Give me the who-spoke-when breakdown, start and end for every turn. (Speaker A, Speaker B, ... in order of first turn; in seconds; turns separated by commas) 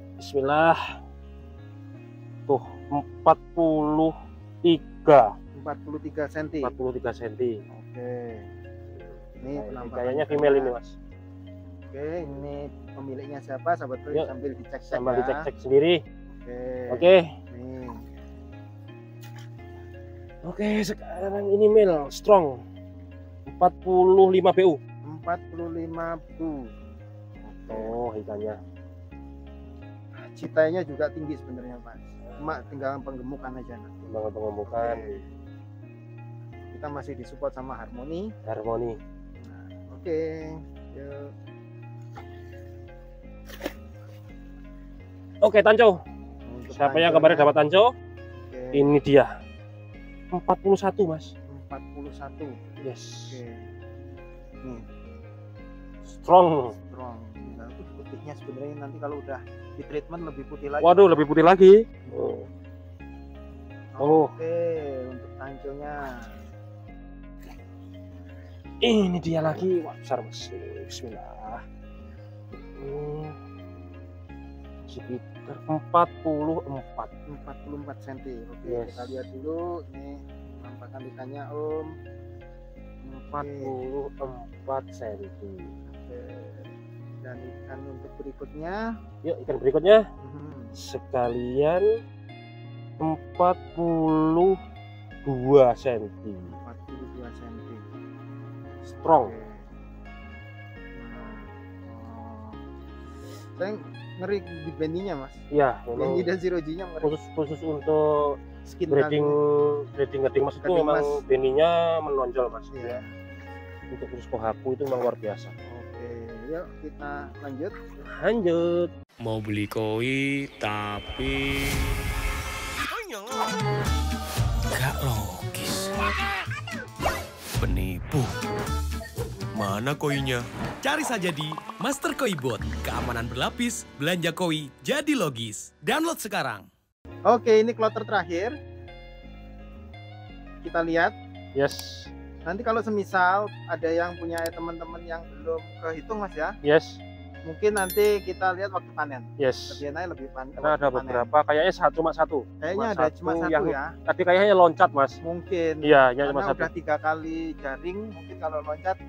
Speaker A: 0.2-0.8, Speaker A: 2.5-5.3, Speaker B: 5.5-6.7, Speaker A: 6.6-7.5, Speaker B: 7.7-8.4, Speaker A: 9.3-10.9, Speaker B: 9.4-10.7, Speaker B: 11.9-15.5, Speaker A: 14.9-16.0, Speaker B: 16.3-18.0, Speaker A: 16.9-17.3, Speaker A: 20.4-22.6, Speaker A: 23.5-24.8, Speaker B: 25.1-26.7, Speaker B: 27.4-27.9, Speaker A: 27.7-28.6, Speaker B: 30.3-34.0, Speaker A: 32.3-32.6, Speaker A: 34.0-35.2, Speaker B: 34.6-35.3, Speaker B: 36.7-38.3, Speaker A: 38.4-39.0, Speaker B: 39.4-41.3, Speaker A: 45.4-46.0, Speaker B: 46.5-47.5, Speaker A: 46.7-47.9, Speaker B: 48.4-49.0, Speaker A: 48.7-49.3, Speaker A: 50.3-51.3, Speaker B: 51.5-52.7, Speaker A: 52.8-53.4, Speaker B: 53.2-53.6, Speaker A: 56.0-56.7, Speaker B: 56.9-61.3, Speaker A: 60.8-62.5, Speaker B: 62.0-62.4, Speaker B: 64.0-66.3, Speaker A: 64.0-64.3, Speaker A: 68.8-71.6, Speaker A: 72.5-73.3, Speaker A: 74.9-77.1, Speaker B: 77.3-81.9, Speaker A: 78.7-79.3, Speaker B: 83.1-83.7, Speaker A: 83.3-85.7, Speaker B: 85.9-88.8, Speaker A: 89.2-90.0, Speaker B: 90.2-90.8, Speaker A: 90.7-91.9, Speaker A: 93.0-94.6, Speaker A: 95.2-96.5, Speaker B: 96.5-97.8, Speaker A: 99.0-99.3, Speaker B: 99.0-99.7, Speaker B: 100.9-102.6, Speaker B: 103.3-105.4, Speaker A: 105.5-106.3, Speaker B: 106.0-107.1, Speaker A: 107.0-108.4, Speaker B: 108.7-109.3, Speaker A: 108.9-113.0, Speaker B: 110.6-111.2, Speaker B: 112.7-113.1, Speaker A: 113.9-115.5, Speaker B: 115.7-117.7, Speaker A: 118.0-118.9, Speaker C: 119.2-122.0, Speaker C: 122.8-123.7, Speaker C: 124.7-126.2, Speaker C: 127.6-128.3, Speaker C: 129.5-136.7, Speaker B: 137.3-138.5, Speaker B: 140.6-141.1, Speaker A: 141.6-142.1, Speaker B: 142.4-146.5, Speaker A: 146.6-147.0, Speaker B: 147.4-151.3, Speaker A: 149.4-149.8, Speaker A: 150.6-155.2, Speaker B: 152.6-153.9, Speaker B: 155.2-159.0, Speaker A: 155.8-156.7